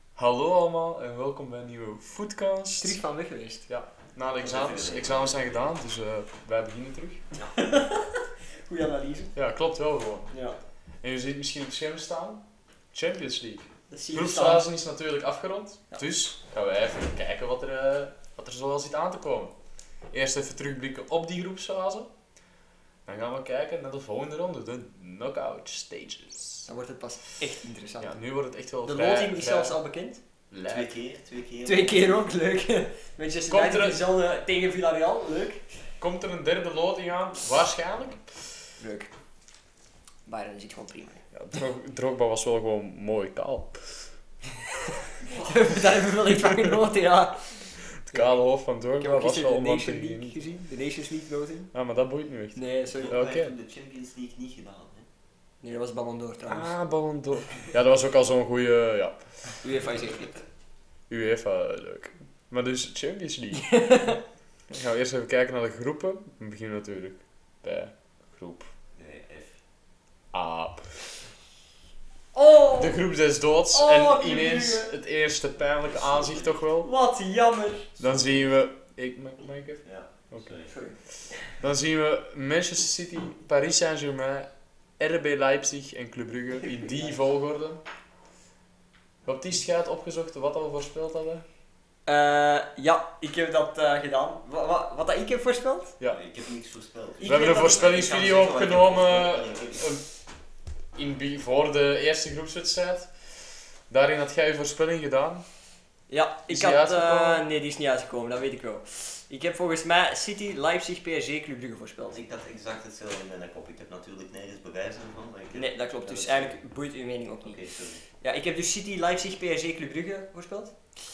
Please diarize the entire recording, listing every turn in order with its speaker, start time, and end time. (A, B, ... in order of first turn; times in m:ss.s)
0:00.2-0:03.0 A
0:02.8-0:03.6 B
0:03.7-0:07.2 A
0:04.4-0:05.7 C
0:07.5-0:09.3 B
0:09.4-0:10.3 A
0:10.3-0:10.6 B
0:11.0-0:12.4 A
0:12.9-0:19.5 A
0:13.9-0:14.7 B
0:20.1-0:22.1 A
0:23.0-0:26.7 A
0:26.7-0:28.1 B
0:28.0-0:29.8 A
0:28.8-0:30.2 B
0:30.5-0:30.9 A
0:30.6-0:32.2 C
0:31.6-0:35.6 B
0:33.5-0:34.0 A
0:36.0-0:38.2 A
0:38.8-0:39.1 B
0:40.2-0:41.2 B
0:41.3-0:43.9 A
0:45.2-0:45.7 C
0:45.3-0:48.4 B
0:46.3-0:46.8 A
0:47.8-0:50.4 A
0:49.0-0:51.7 B
0:51.7-0:53.5 A
0:52.6-0:53.2 B
0:52.9-0:55.1 C
0:55.6-0:56.7 B
0:56.4-0:59.6 A
0:59.6-1:00.4 B
1:01.1-1:04.1 A
1:03.6-1:04.2 B
1:04.7-1:08.7 A
1:09.0-1:09.6 C
1:10.3-1:11.0 A
1:12.3-1:13.0 B
1:12.8-1:16.9 A
1:13.7-1:14.9 B
1:15.8-1:16.7 C
1:16.8-1:17.9 B
1:18.0-1:18.5 C
1:18.0-1:20.6 A
1:19.8-1:20.7 C
1:20.7-1:21.6 B
1:21.5-1:27.8 A
1:26.8-1:27.1 B
1:29.2-1:31.4 A
1:32.0-1:35.9 B
1:36.1-1:39.9 C
1:37.2-1:37.9 B
1:37.2-1:40.0 A
1:41.0-1:43.3 A
1:43.9-1:45.4 A
1:46.1-1:52.2 B
1:46.5-1:47.4 A
1:52.1-1:56.6 C
1:55.5-1:57.6 B
1:57.4-1:58.0 C
1:58.2-2:00.8 B